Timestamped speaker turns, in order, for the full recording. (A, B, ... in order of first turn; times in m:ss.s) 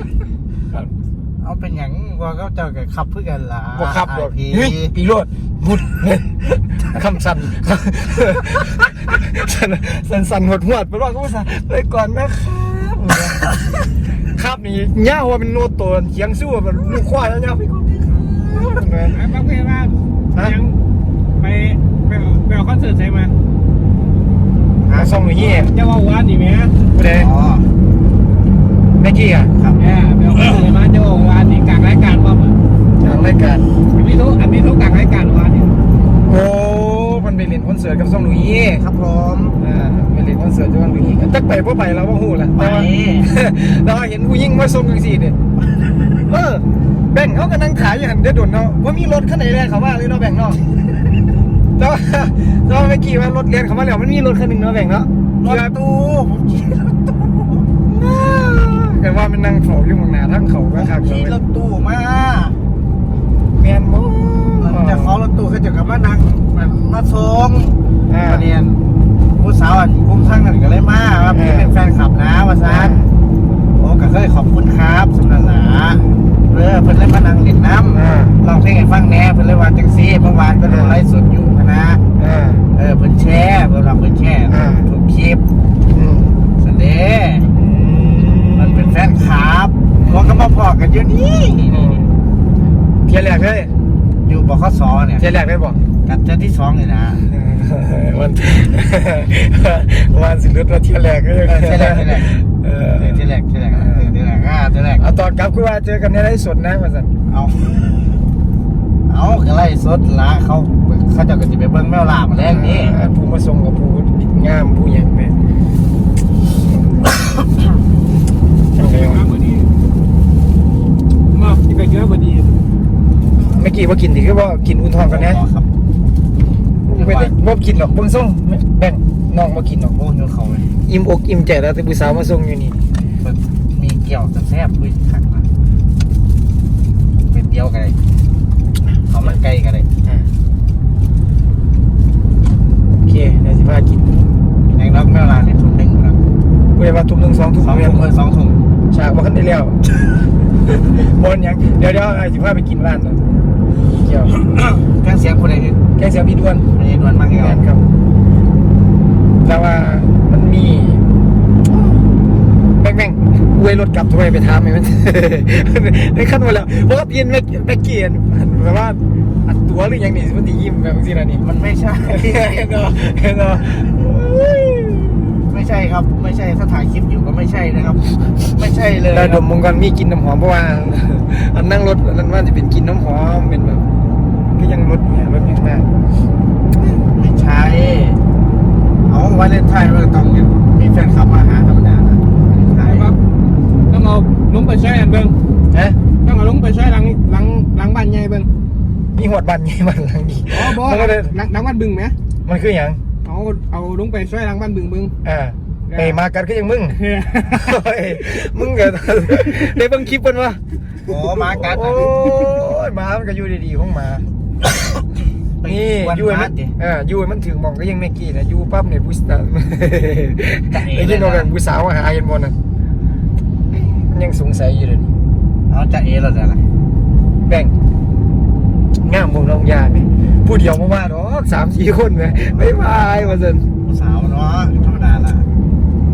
0:01.4-0:04.9 A
0:03.8-0:19.2 B
0:19.1-0:20.8 C
0:21.4-0:23.3 C
0:24.8-0:25.1 A
0:24.9-0:25.8 B
0:25.4-0:26.8 C
0:26.9-0:27.3 B
0:27.1-0:27.7 A
0:29.0-0:29.5 B
0:29.6-0:29.8 A
0:29.8-0:32.6 C
0:33.0-0:33.7 B
0:33.9-0:35.7 C
0:36.2-0:38.9 B
0:38.8-0:39.6 A
0:39.6-0:45.4 B
0:42.6-0:43.3 A
0:45.6-0:46.2 A
0:46.3-0:50.6 B
0:51.8-0:55.7 B
0:55.4-0:57.7 A
0:57.8-1:01.4 B
1:00.8-1:02.6 A
1:03.6-1:05.2 B
1:04.6-1:08.8 A
1:08.1-1:08.5 B
1:09.3-1:13.0 A
1:11.3-1:11.7 B
1:12.6-1:13.1 B
1:13.8-1:22.0 A
1:17.9-1:18.4 B
1:20.6-1:21.0 B
1:22.2-1:22.7 B
1:22.7-1:25.4 A
1:24.5-1:24.9 B
1:25.9-1:26.4 B
1:26.6-1:27.5 A
1:27.6-1:29.1 B
1:28.5-1:32.0 A
1:30.0-1:30.5 B
1:31.6-1:32.1 B
1:33.1-1:33.7 B
1:34.2-1:35.3 A
1:35.2-1:35.8 B
1:36.0-1:37.2 A
1:37.2-1:44.1 B
1:41.5-1:42.4 A
1:43.0-1:45.1 A
1:45.0-1:47.1 B
1:47.3-1:48.2 A
1:49.1-1:53.0 A
1:52.4-1:55.4 B
1:58.8-1:59.2 B
1:58.8-1:59.7 C
2:01.3-2:02.6 C
2:03.4-2:05.4 B
2:05.0-2:05.7 A
2:06.9-2:10.0 B
2:06.9-2:07.4 A
2:10.0-2:10.7 A
2:10.9-2:12.9 B
2:13.2-2:15.5 A
2:17.2-2:18.0 A
2:19.1-2:19.9 A
2:20.0-2:20.3 B
2:23.0-2:24.2 B
2:24.7-2:26.2 A
2:26.8-2:28.1 B
2:27.6-2:28.6 A
2:28.9-2:29.8 B
2:30.7-2:33.2 B
2:34.0-2:34.4 B
2:34.5-2:35.8 A
2:36.0-2:36.7 B
2:36.7-2:37.6 A
2:37.3-2:37.9 B
2:39.4-2:41.1 B
2:42.8-2:51.4 B
2:51.4-2:52.6 A
2:52.1-2:55.4 B
2:55.5-2:59.5 A
2:59.1-3:03.9 B
3:04.5-3:05.9 B
3:06.8-3:08.2 A
3:09.1-3:13.1 A
3:12.8-3:13.2 C
3:13.9-3:15.4 C
3:15.7-3:16.0 B
3:16.2-3:18.5 C
3:19.2-3:21.4 B
3:20.5-3:22.2 C
3:22.5-3:23.0 B
3:23.2-3:25.1 C
3:25.2-3:30.6 B
3:25.9-3:26.2 C
3:27.0-3:27.7 C
3:31.0-3:32.1 A
3:31.4-3:34.3 B
3:35.6-3:36.7 A
3:35.6-3:42.6 B
3:40.7-3:41.5 A
3:43.7-3:45.1 B
3:45.7-3:46.6 A
3:47.4-3:47.7 B
3:49.0-3:53.6 B
3:52.3-3:55.5 A